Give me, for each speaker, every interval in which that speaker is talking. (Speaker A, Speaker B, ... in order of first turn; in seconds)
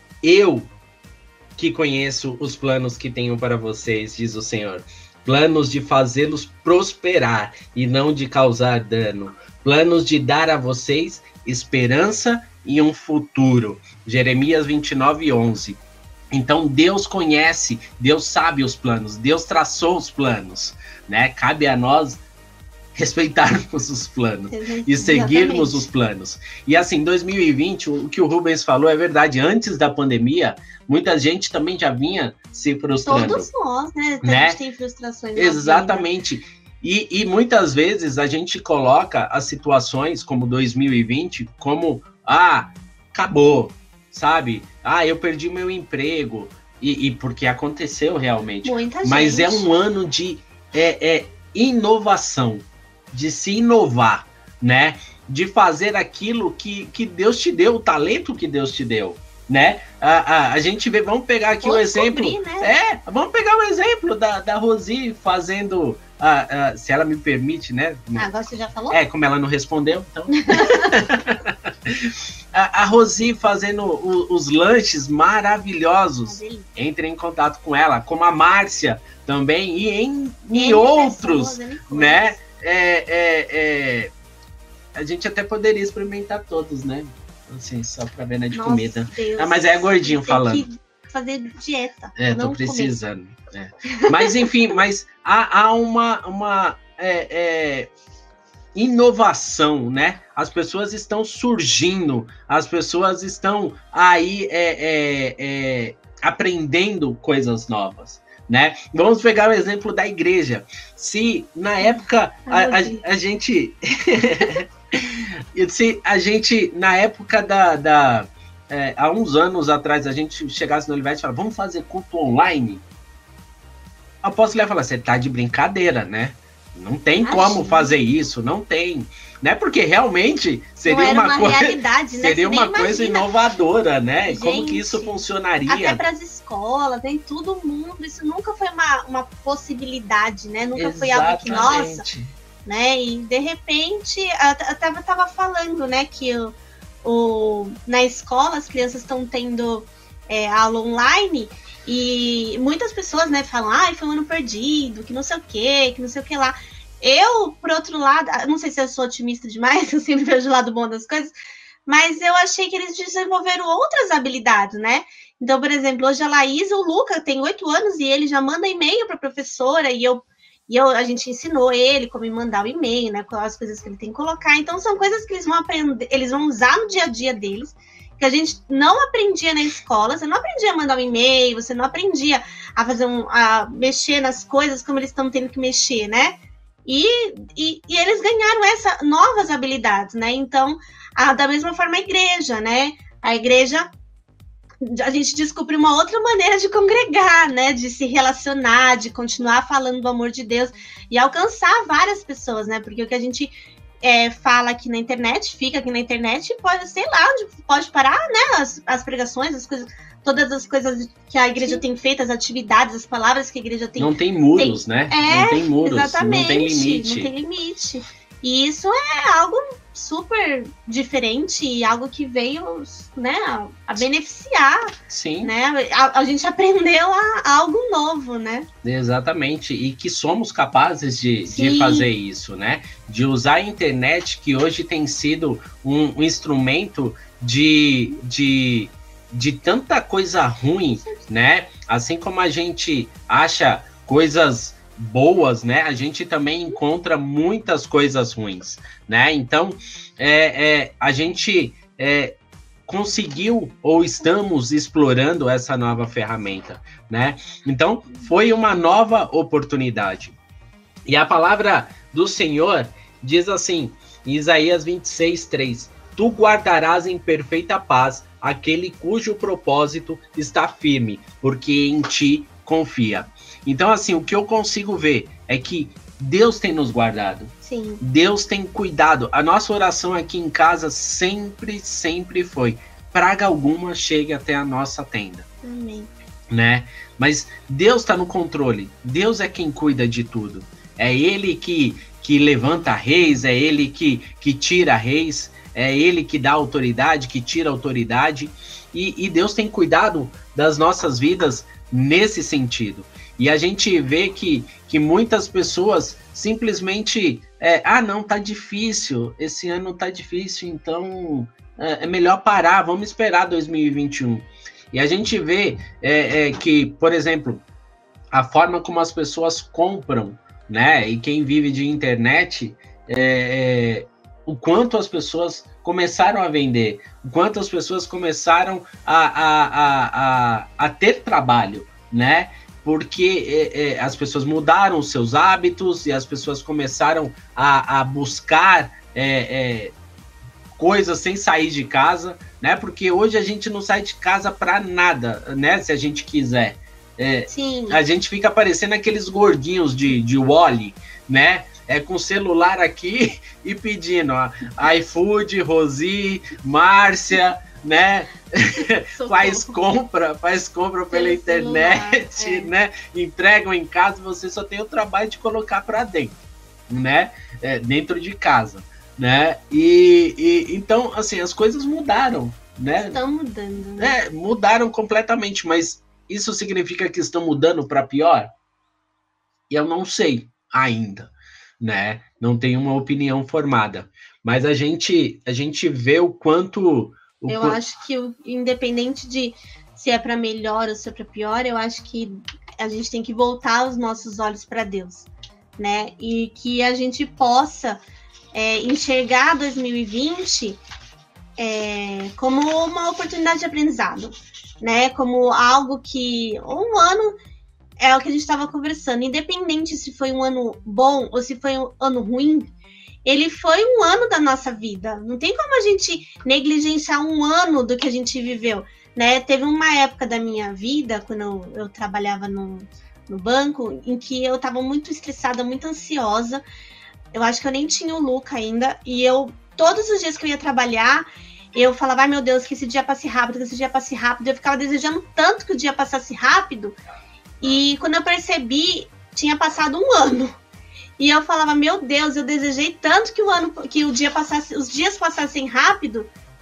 Speaker A: 0.2-0.7, 1.6-15.8, 16.3-22.2, 22.9-33.5, 34.2-34.6, 35.4-68.3, 68.9-84.1, 85.0-90.7, 92.2-97.9, 98.8-122.8, 124.2-136.0, 140.8-142.3, 214.0-217.3, 225.1-225.5, 228.8-260.4, 261.1-285.5, 286.5-317.6, 318.3-339.9, 340.8-366.4, 366.9-373.2, 374.0-378.5, 379.7-387.8
Speaker B: 24.5-25.9, 33.1-36.1, 48.6-49.7, 61.6-62.7, 68.2-69.0, 70.4-70.9, 76.2-76.7, 80.5-82.4, 88.5-93.0, 111.9-113.0, 127.2-128.0, 130.8-133.3, 134.2-142.1, 142.7-161.3, 161.9-193.9, 194.8-224.8, 225.4-228.7, 231.5-232.1, 277.6-278.0, 285.6-286.1, 347.5-348.0, 359.1-359.8, 361.1-362.7, 373.1-374.2, 387.5-398.0, 398.5-400.8, 401.6-407.4, 408.0-412.7, 413.2-426.6, 427.3-437.0, 437.6-440.6, 441.2-446.3